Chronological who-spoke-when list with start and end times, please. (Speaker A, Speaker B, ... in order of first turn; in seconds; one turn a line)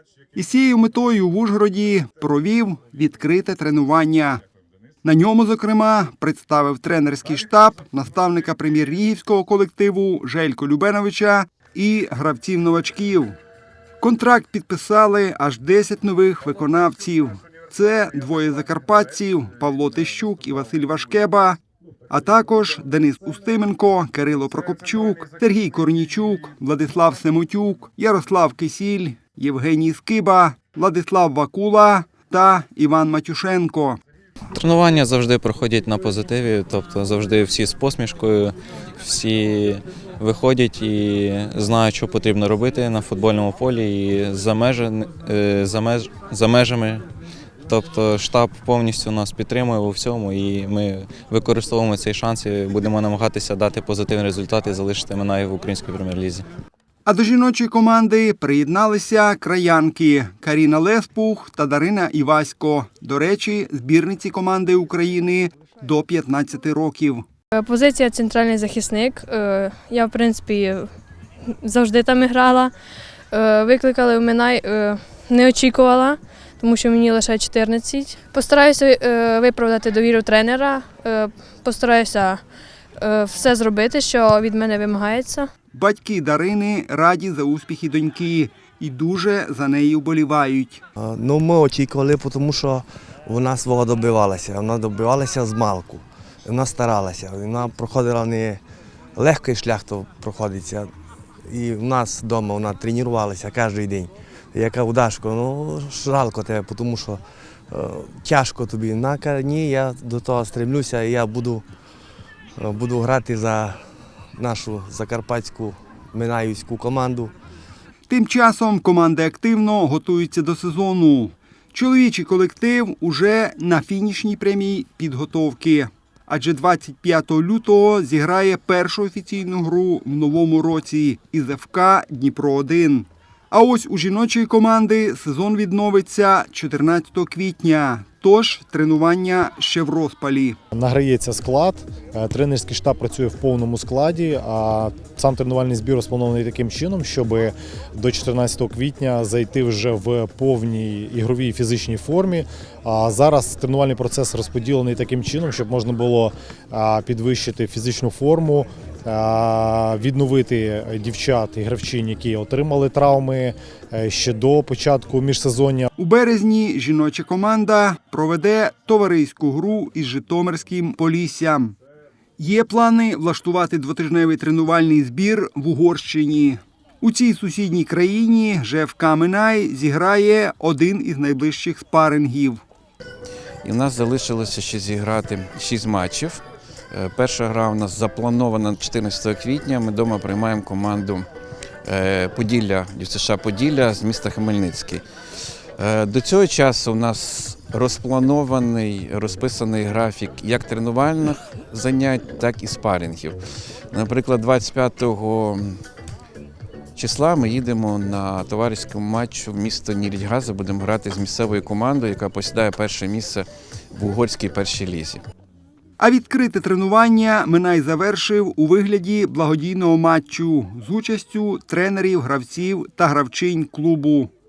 Speaker A: 0.3-4.4
Speaker A: 5.0-13.4
Speaker A: 14.0-21.6
Speaker A: 22.1-34.0
Speaker B: 34.5-47.0
Speaker B: 47.7-56.4
Speaker A: 57.0-67.2
Speaker C: 67.5-70.9
Speaker C: 71.6-72.7
Speaker C: 73.3-82.4
Speaker C: 83.0-85.5
Speaker A: 85.7-90.8
Speaker D: 91.0-98.6
Speaker D: 99.2-100.9
Speaker D: 101.5-111.6
Speaker D: 112.6-113.8
Speaker D: 114.3-117.3
Speaker A: 118.1-140.6
Speaker E: 140.7-165.9
Speaker A: 166.0-171.8
Speaker A: 172.4-182.6
Speaker F: 183.6-186.4
Speaker F: 186.9-191.2
Speaker F: 191.8-195.0
Speaker F: 195.8-203.4
Speaker F: 203.9-205.8
Speaker F: 206.9-215.2
Speaker A: 216.0-224.3